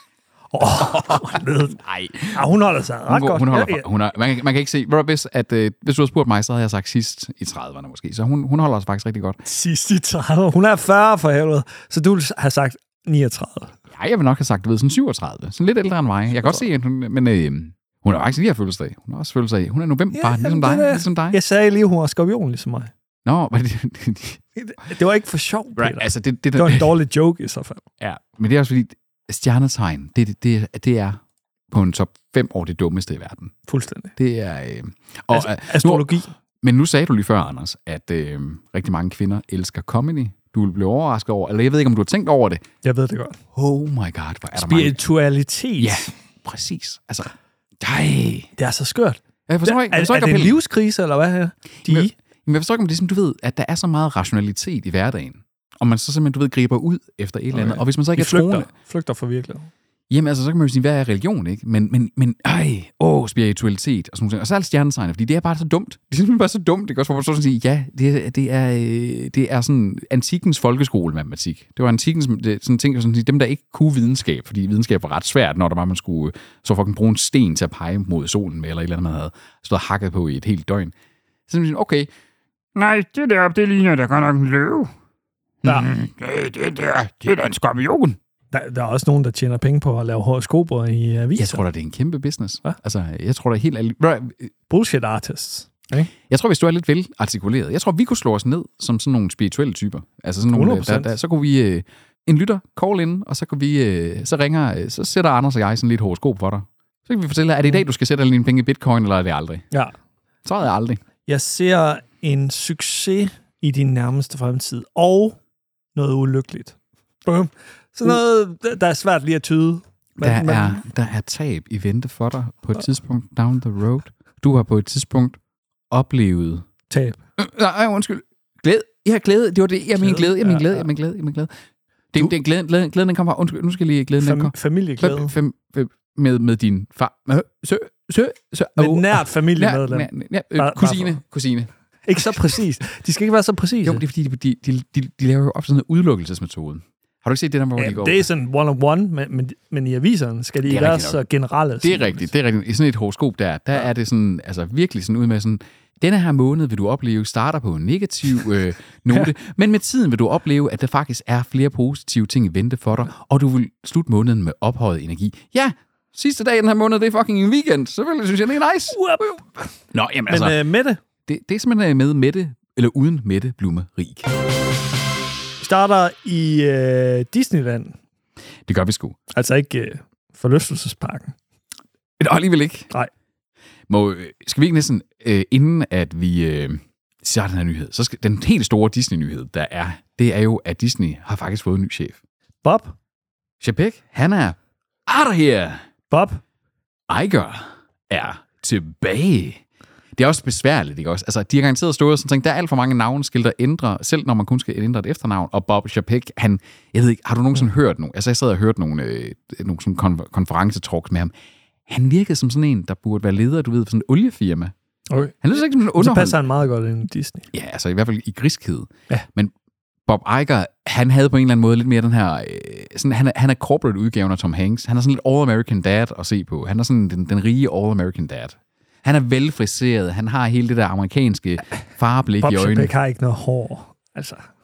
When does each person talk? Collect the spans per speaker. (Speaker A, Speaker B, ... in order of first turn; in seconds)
Speaker A: 0.5-1.8, 2.3-3.9, 9.4-13.7, 20.1-22.9, 24.6-27.8, 33.7-34.1, 35.3-36.3, 42.8-43.4, 44.5-46.1, 48.6-52.1, 57.5-59.7, 88.5-91.6, 94.7-96.1, 100.5-101.1, 111.2-115.4, 115.9-120.8, 126.9-127.2, 130.0-130.9, 134.2-135.3, 138.8-141.2, 142.1-144.0, 147.8-152.3, 168.9-169.7, 170.3-171.0, 175.6-178.0, 179.3-181.3, 192.6-192.9, 196.1-196.4, 215.1-217.5, 232.4-234.5
Speaker B: 0.6-2.4, 3.1-9.4, 13.9-21.4, 23.2-24.4, 25.8-26.9, 28.0-33.5, 34.1-36.1, 36.6-42.6, 43.5-45.0, 45.8-48.5, 49.5-50.6, 51.8-58.7, 60.1-80.9, 81.5-82.1, 82.7-84.9, 85.6-88.2, 91.3-94.5, 96.3-109.6, 110.4-111.0, 120.2-125.4, 125.9-126.7, 127.4-131.5, 132.1-142.4, 143.8-148.3, 150.6-151.2, 151.8-169.0, 169.9-170.6, 171.2-174.3, 178.7-179.2, 182.2-182.9, 183.9-192.2, 193.6-195.8, 197.1-199.6, 200.1-211.3, 211.9-214.7, 215.4-216.4, 217.5-219.5, 220.1-232.9